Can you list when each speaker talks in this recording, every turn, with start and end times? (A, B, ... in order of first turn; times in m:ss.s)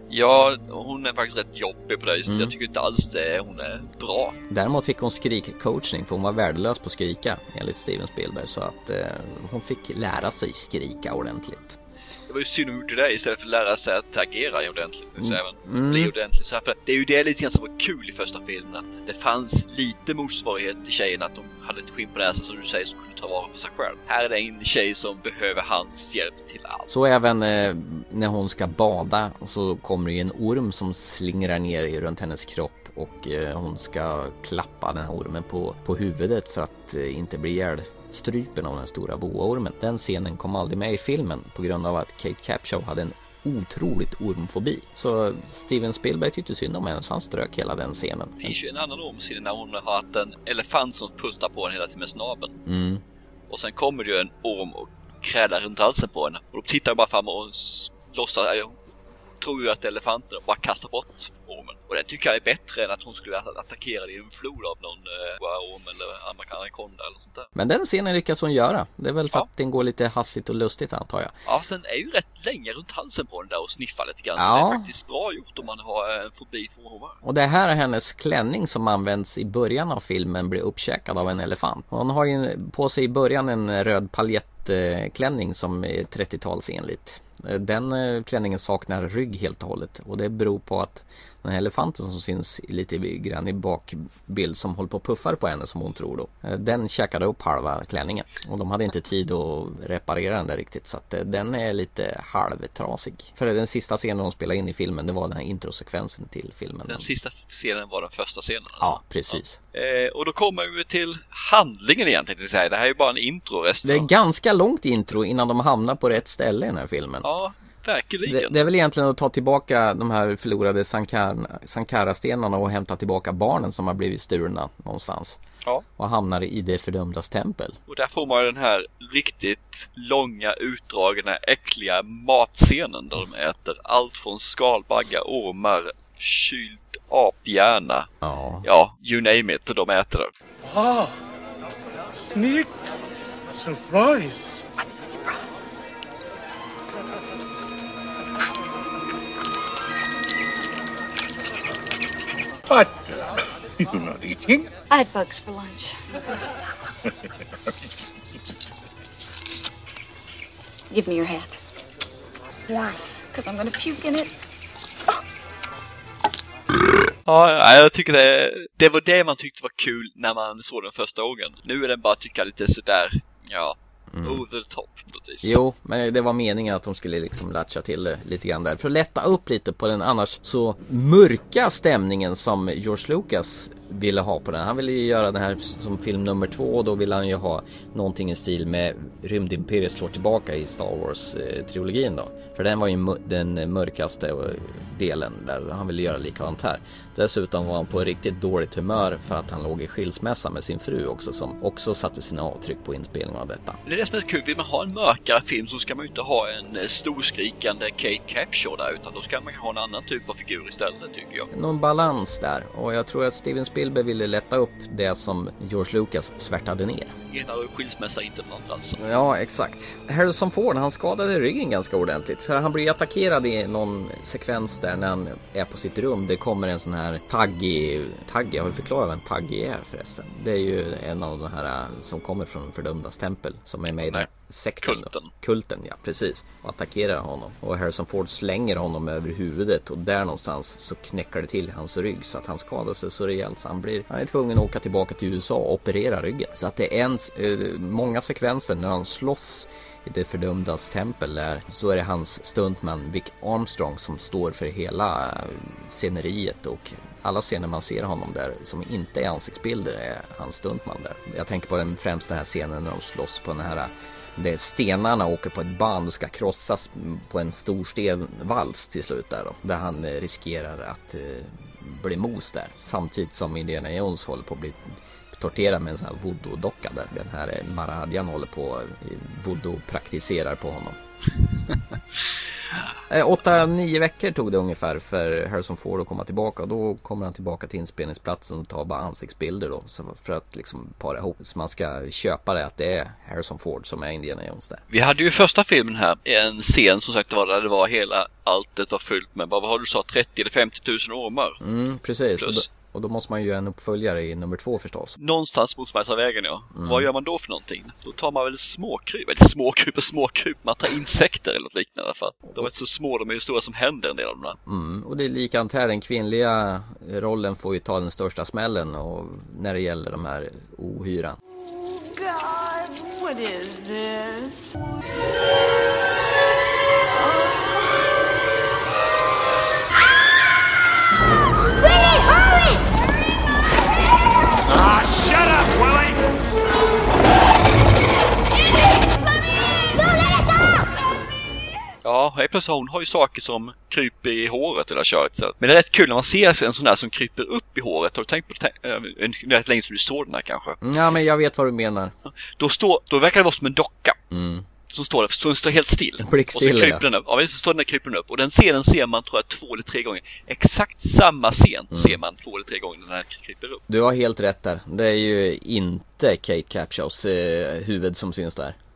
0:00.1-0:04.4 A
0:02.3-0:02.5 B
0:04.5-0:11.8 B
0:12.3-0:26.9 A
0:15.2-0:16.1 B
0:26.9-0:48.6 B
0:48.4-0:52.6 A
0:52.7-0:53.0 B
0:53.5-0:58.8 A
0:59.4-1:07.5 A
1:07.6-1:11.3 B
1:11.5-1:17.2 A
1:14.4-1:14.9 B
1:17.2-1:47.1 B
1:46.9-1:54.1 A
1:48.8-1:49.6 B
1:53.8-1:57.3 B
1:57.2-1:58.6 A
1:58.2-2:05.4 B
2:06.0-2:07.8 B
2:07.9-2:18.1 A
2:18.2-2:18.7 B
2:18.6-2:20.3 A
2:20.6-2:21.1 C
2:22.1-2:22.7 C
2:23.5-2:24.7 C
2:24.8-2:25.5 D
2:32.7-2:33.3 C
2:33.8-2:34.7 C
2:34.9-2:36.0 D
2:40.9-2:41.6 D
2:42.7-2:44.3 D
2:47.3-2:55.6 A
2:54.1-2:54.4 B
2:55.4-3:23.8 B
3:23.9-3:31.5 A
3:31.5-3:37.2 B
3:37.3-3:39.0 A
3:39.0-4:41.0 B
3:54.8-3:55.3 A
4:43.1-4:54.8 B
4:54.9-5:01.6 A
5:01.6-5:05.2 B
5:02.4-5:02.6 A
5:05.2-5:14.6 A
5:06.7-5:07.1 B
5:14.7-5:21.4 B
5:21.6-5:24.7 E
5:27.2-5:27.8 E
5:31.8-5:32.8 E
5:34.8-5:36.2 C
5:42.0-5:50.8 A
5:50.8-5:52.2 B
5:52.3-5:54.2 A
5:54.3-5:54.7 B
5:54.9-6:03.8 A
5:56.2-5:57.0 B
6:01.9-6:02.2 B
6:03.9-6:08.8 B